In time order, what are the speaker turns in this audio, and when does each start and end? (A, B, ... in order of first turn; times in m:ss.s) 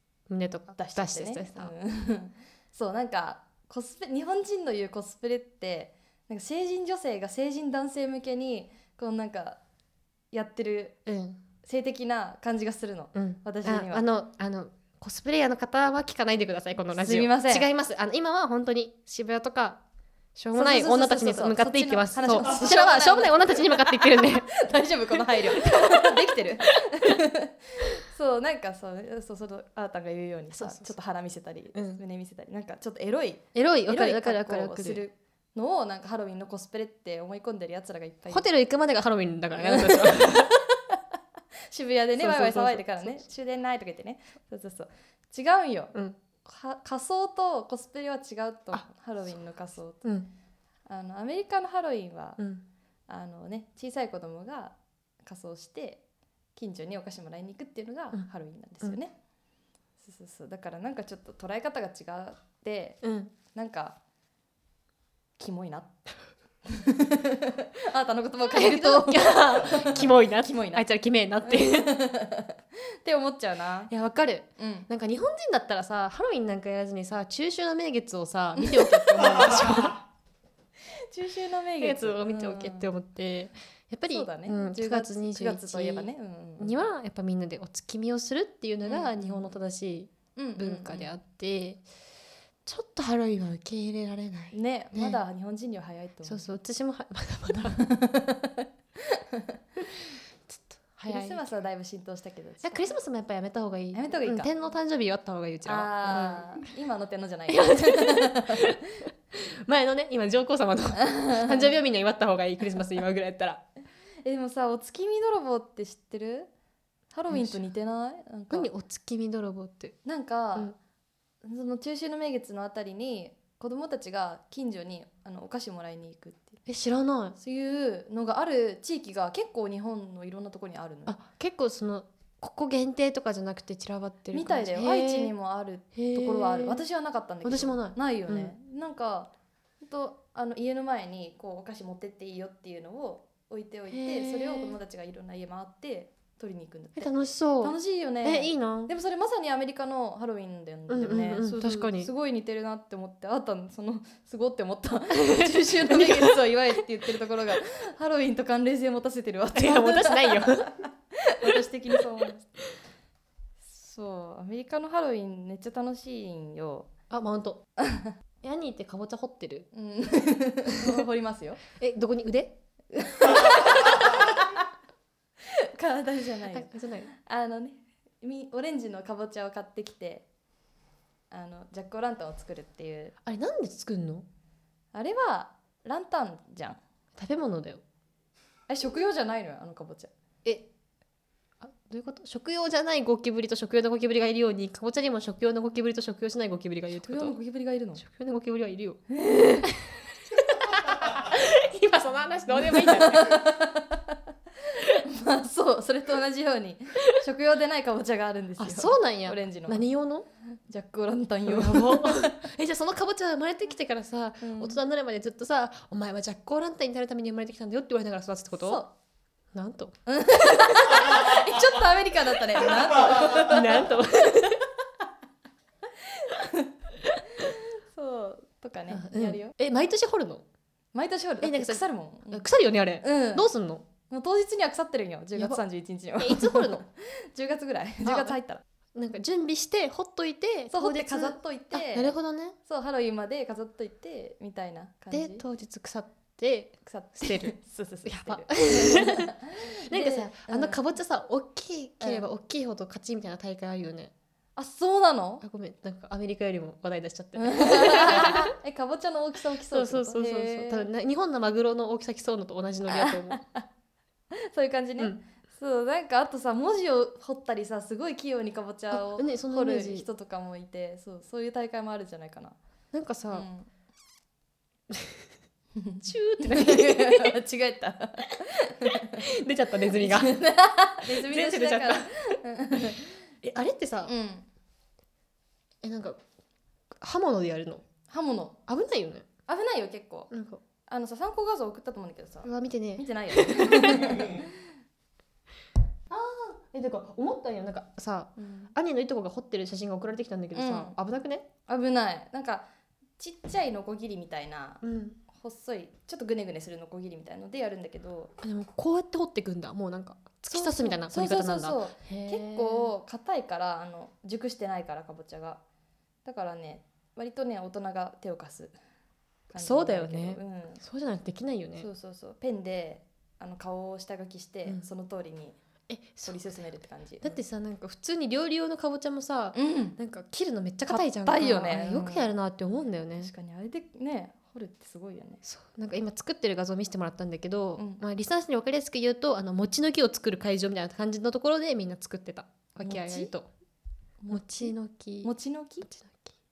0:00.3-0:01.7 A
0:00.7-0:09.6 B
0:10.3-0:11.0 B
0:11.1-0:11.4 A
0:11.6-0:14.0 B
0:13.1-0:19.8 A
0:16.9-0:17.7 B
0:20.4-0:24.6 A
0:20.5-0:38.4 B
0:25.4-0:26.2 A
0:30.5-0:30.9 A
0:31.8-0:32.0 A
0:33.6-0:35.0 A
0:38.3-0:40.6 A
0:39.6-0:40.5 B
0:41.7-0:45.9 B
0:42.2-0:43.2 A
0:46.4-0:50.0 B
0:50.9-0:52.4 B
0:52.4-0:52.6 A
0:53.1-0:56.0 B
0:56.6-0:59.2 B
1:00.0-1:03.0 B
1:03.0-1:03.3 A
1:03.5-1:04.0 B
1:05.4-1:06.0 B
1:06.7-1:10.8 B
1:08.5-1:12.0 A
1:11.4-1:13.9 B
1:13.9-1:20.0 A
1:14.6-1:14.9 B
1:18.6-1:19.6 B
1:21.1-1:22.9 B
1:21.8-1:31.8 A
1:24.1-1:26.8 B
1:28.8-1:29.5 B
1:30.4-1:31.1 B
1:32.7-1:35.2 A
1:34.5-1:36.5 B
1:36.2-1:37.9 A
1:37.5-1:39.5 B
1:40.5-1:41.4 A
1:41.0-1:42.9 B
1:42.6-1:46.6 A
1:43.9-1:44.5 B
1:45.6-1:48.7 B
1:47.5-1:48.8 A
1:49.7-1:53.6 A
1:51.1-1:51.7 B
1:54.2-1:56.5 B
1:57.1-1:58.7 B
1:57.3-1:57.6 A
1:58.5-2:00.0 A
2:00.0-2:00.7 B
2:01.4-2:06.6 B
2:06.7-2:07.4 A
2:07.4-2:11.2 B
2:11.1-2:15.3 A
2:14.3-2:42.4 B
2:16.0-2:16.8 A
2:17.4-2:18.5 A
2:23.9-2:24.8 A
2:27.0-2:28.9 A
2:30.9-2:32.1 A
2:35.1-2:36.4 A
2:39.5-2:40.7 A
2:43.7-2:46.9 B
2:47.1-2:47.6 A
2:47.8-2:48.1 B
2:48.4-2:49.7 A
2:49.7-2:51.6 B
2:51.8-2:52.6 A
2:52.9-2:54.7 B
2:55.6-3:00.3 B
2:56.5-2:57.1 A
3:01.3-3:03.1 B
3:03.3-3:04.3 A
3:04.9-3:06.8 B
3:07.2-3:07.8 A
3:08.7-3:10.1 B
3:11.6-3:17.4 A
3:17.0-3:18.0 B
3:18.0-3:19.0 A
3:19.1-3:19.7 B
3:19.6-3:23.5 A
3:22.5-3:24.1 B
3:24.8-3:29.8 B
3:28.6-3:30.3 A
3:30.7-3:32.3 B
3:31.5-3:38.8 A
3:34.4-3:34.8 B
3:38.6-3:38.9 B
3:39.5-3:40.0 A
3:40.1-3:44.0 B
3:43.1-3:44.7 A
3:46.0-3:46.7 B
3:47.4-3:49.5 B
3:48.9-3:50.4 A
3:50.9-3:52.4 B
3:51.4-3:53.9 A
3:53.0-3:53.5 B
3:54.1-3:58.6 B
3:56.2-3:56.8 A
3:58.0-3:58.4 A
3:59.0-4:02.6 A
4:00.7-4:05.4 B
4:05.1-4:09.3 A
4:06.8-4:10.8 B
4:09.8-4:14.1 A
4:12.0-4:12.3 B
4:14.6-4:15.4 B
4:15.4-4:18.5 A
4:17.4-4:20.9 B
4:19.7-4:23.4 A
4:22.9-4:23.6 B
4:24.5-4:32.6 B
4:28.9-4:30.1 A
4:32.9-4:33.5 A
4:33.3-4:33.7 B
4:35.8-4:39.2 B
4:36.0-4:37.4 A
4:38.9-4:40.4 A
4:39.9-4:43.1 B
4:41.0-4:42.3 A
4:43.4-4:44.1 A
4:44.0-4:44.4 B
4:45.8-4:46.2 A
4:47.0-4:47.8 A
4:48.1-4:48.6 B
4:48.7-4:49.2 A
4:49.5-4:50.3 B
4:50.3-4:50.6 A
4:50.9-4:54.5 B
4:52.4-4:54.4 A
4:56.1-5:01.5 A
4:58.4-4:58.7 B
5:00.5-5:01.0 B
5:01.7-5:02.7 B
5:03.2-5:08.3 B
5:04.8-5:05.2 A
5:08.4-5:12.9 A
5:10.5-5:15.6 B
5:16.2-5:18.8 B
5:19.5-5:20.8 B
5:19.6-5:21.9 A
5:21.8-5:25.6 B
5:25.9-5:26.4 A
5:26.2-5:27.4 B
5:27.2-5:33.3 A
5:29.5-5:30.0 B
5:30.9-5:32.3 B
5:33.2-5:35.4 B
5:35.4-5:43.5 A
5:37.8-5:38.0 B
5:42.8-5:43.3 B
5:44.2-5:45.9 B
5:44.3-5:45.3 A
5:45.9-5:46.3 A